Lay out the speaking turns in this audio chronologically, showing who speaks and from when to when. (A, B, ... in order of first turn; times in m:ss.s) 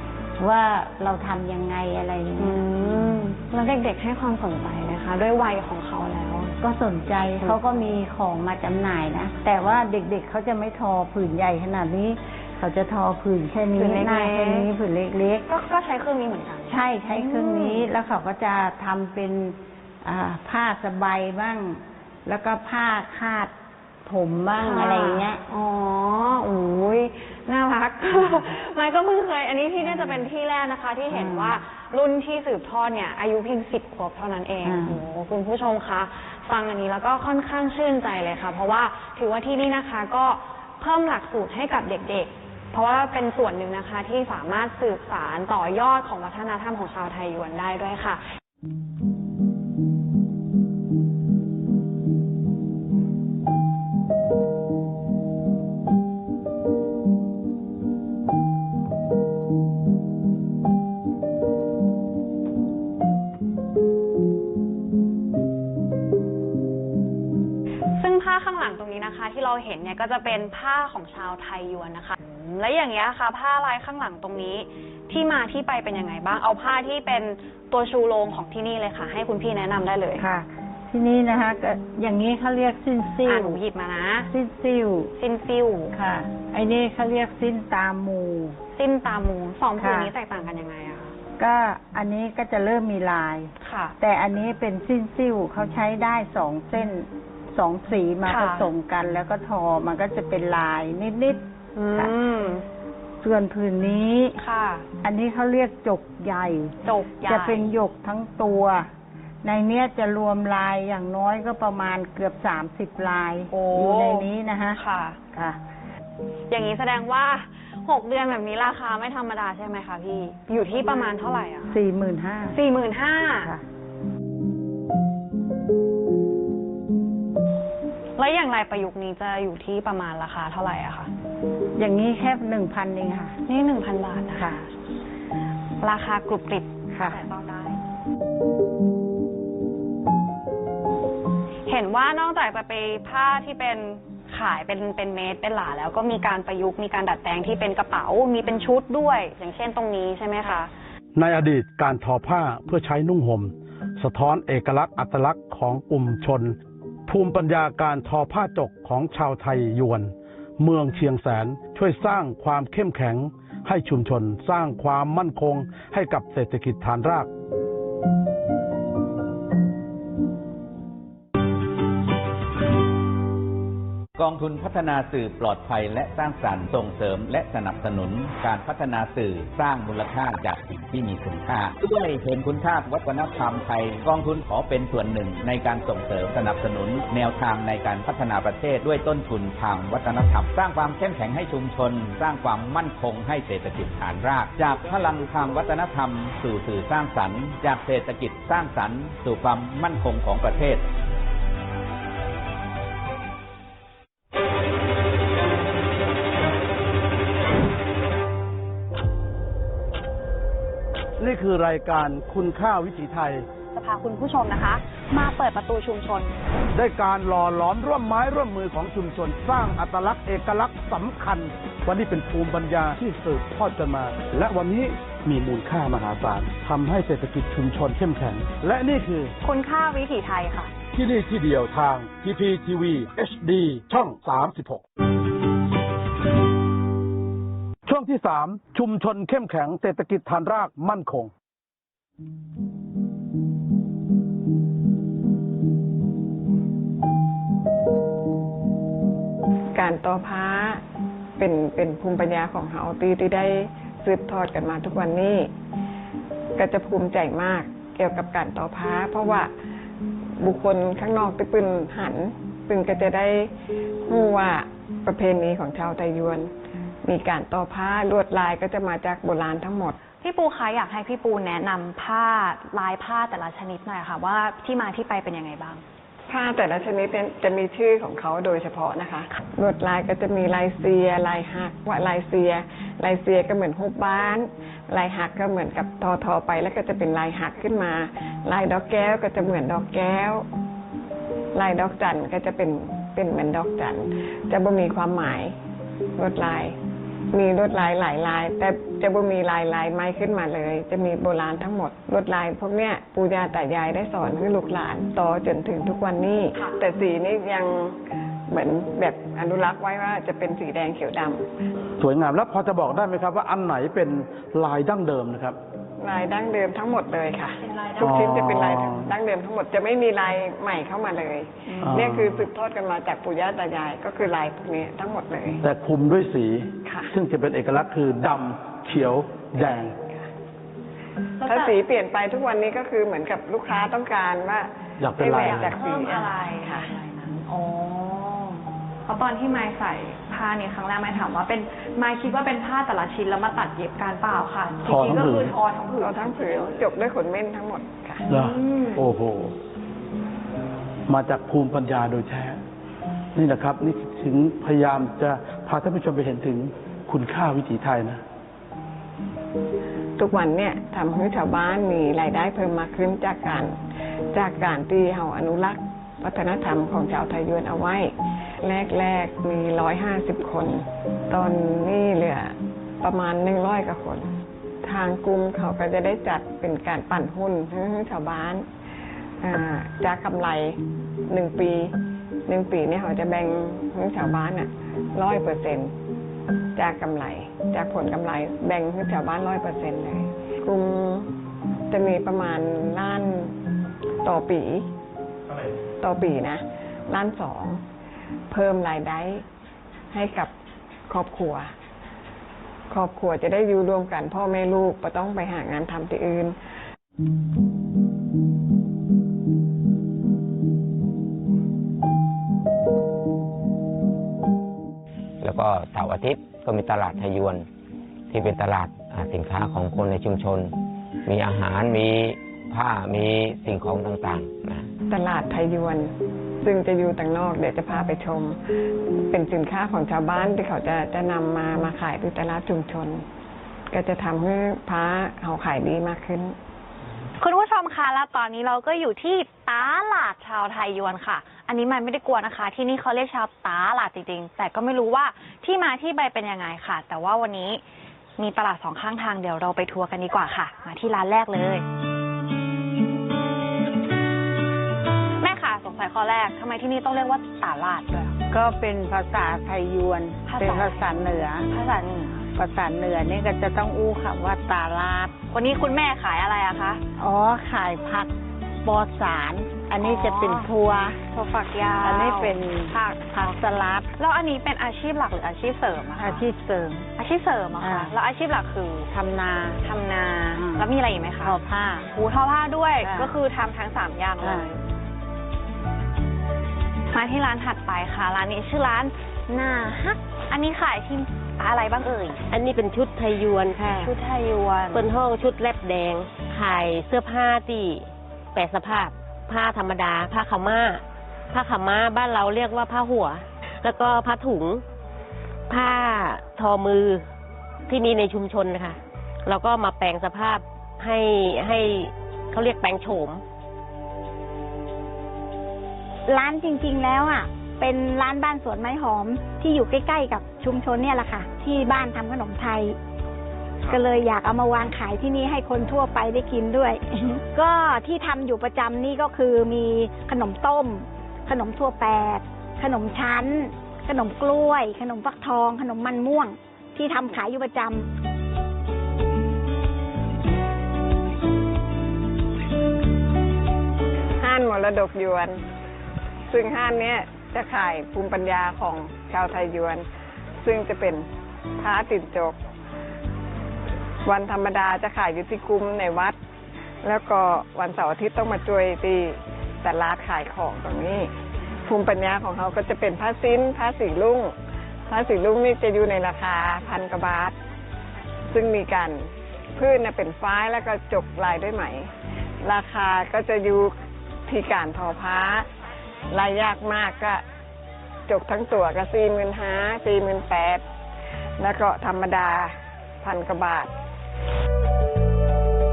0:00.4-0:03.0 A
0:02.4-0:06.5 B
0:06.6-0:15.4 A
0:13.7-0:14.7 B
0:15.5-0:17.9 B
0:16.7-0:23.5 A
0:24.0-0:25.4 A
0:24.6-0:48.2 B
0:29.8-0:30.3 A
0:31.1-0:31.6 A
0:34.6-0:35.0 A
1:07.9-1:20.2 B
1:20.2-1:23.6 A
1:23.2-1:24.3 B
1:24.3-1:25.1 A
1:25.2-1:25.9 B
1:25.9-1:28.6 A
1:28.7-1:31.1 B
1:29.8-1:30.1 A
1:31.4-1:41.4 A
1:33.6-1:33.9 B
1:38.2-1:38.7 B
1:41.8-1:42.6 B
1:43.2-1:44.3 A
1:44.4-1:44.8 B
1:45.0-1:48.9 A
1:46.8-1:47.7 B
1:49.4-1:54.8 A
1:53.5-1:55.2 B
1:56.5-2:01.7 B
2:01.7-2:02.6 A
2:02.5-2:03.5 B
2:08.2-2:11.1 B
2:11.8-2:13.4 A
2:13.5-2:14.7 B
2:15.8-2:17.8 B
2:16.9-2:17.2 A
2:21.7-2:30.7 B
2:31.1-2:36.5 C
2:37.1-2:47.3 C
2:54.2-3:20.8 D
3:31.2-3:33.4 C
3:33.7-3:36.3 B
3:36.7-3:49.3 C
3:49.4-3:50.7 B
3:50.9-3:54.8 C
3:57.8-4:01.3 C
4:09.7-4:10.8 E
4:11.4-4:15.5 E
4:16.6-4:19.5 E
4:20.4-4:23.5 E
4:24.1-4:26.5 E
4:27.0-4:30.0 E
4:30.2-4:35.8 B
4:36.3-4:50.4 E
4:51.5-4:55.6 E
4:56.2-4:56.8 E
4:57.3-5:11.5 E
5:12.0-5:15.6 C
5:16.0-5:25.6 E
5:18.0-5:19.1 C
5:21.8-5:22.4 C
5:25.6-5:29.9 C
5:26.8-5:27.1 E
5:29.6-5:30.2 E
5:31.4-5:31.8 B
5:31.4-5:36.9 E
5:35.0-5:35.7 C
5:35.4-5:46.8 B
5:44.8-5:45.6 C
5:45.9-5:48.2 E
5:48.3-5:49.5 C
5:48.4-5:48.9 B
5:51.1-5:52.6 C
5:53.3-5:58.2 C
6:00.2-6:03.8 E
6:04.3-6:18.6 E
6:19.4-6:21.9 E
6:22.5-6:25.9 E
6:26.7-6:31.3 E
6:31.9-6:33.5 E
6:34.2-6:34.9 E
6:36.0-6:37.8 E
6:38.5-6:39.4 E
6:40.1-6:40.5 E
6:41.1-6:41.7 E
6:42.9-6:46.6 E
6:55.4-6:57.6 F
6:58.3-7:00.7 F
7:01.2-7:04.9 F
7:05.1-7:08.6 E
7:09.3-7:13.3 E
7:13.9-7:16.6 E
7:17.4-7:27.8 B
7:28.4-7:31.8 B
7:35.4-7:38.4 B
7:38.5-7:41.7 A
7:40.5-7:41.2 B
7:41.7-7:42.5 B
7:42.5-7:45.3 A
7:45.5-7:47.0 B
7:47.2-7:48.3 A
7:48.8-7:51.2 A
7:50.0-7:50.7 B
7:51.3-7:53.3 B
7:52.0-7:54.1 A
7:54.2-7:56.4 B
7:56.2-7:57.1 A
7:57.2-7:59.1 B
7:57.8-7:58.1 A
7:59.1-7:59.8 A
7:59.7-8:01.6 B
8:00.5-8:00.9 A
8:01.4-8:02.1 A
8:02.1-8:04.7 B
8:03.0-8:03.3 A
8:04.4-8:04.7 A
8:07.1-8:12.4 B
8:12.5-8:14.1 G
8:13.9-8:15.0 B
8:14.9-8:24.8 G
8:25.7-8:27.2 G
8:27.9-8:33.4 G
8:36.3-8:43.0 H
8:43.9-8:58.1 H
9:04.4-9:05.6 E
9:06.5-9:10.0 E
9:10.6-9:12.6 E
9:14.2-9:16.4 E
9:17.0-9:21.3 E
9:21.8-9:24.6 E
9:25.1-9:27.6 E
9:28.5-9:32.1 E
9:32.6-9:33.9 E
9:34.5-9:35.7 E
9:36.3-9:37.4 E
9:38.3-9:40.8 E
9:41.6-9:43.9 E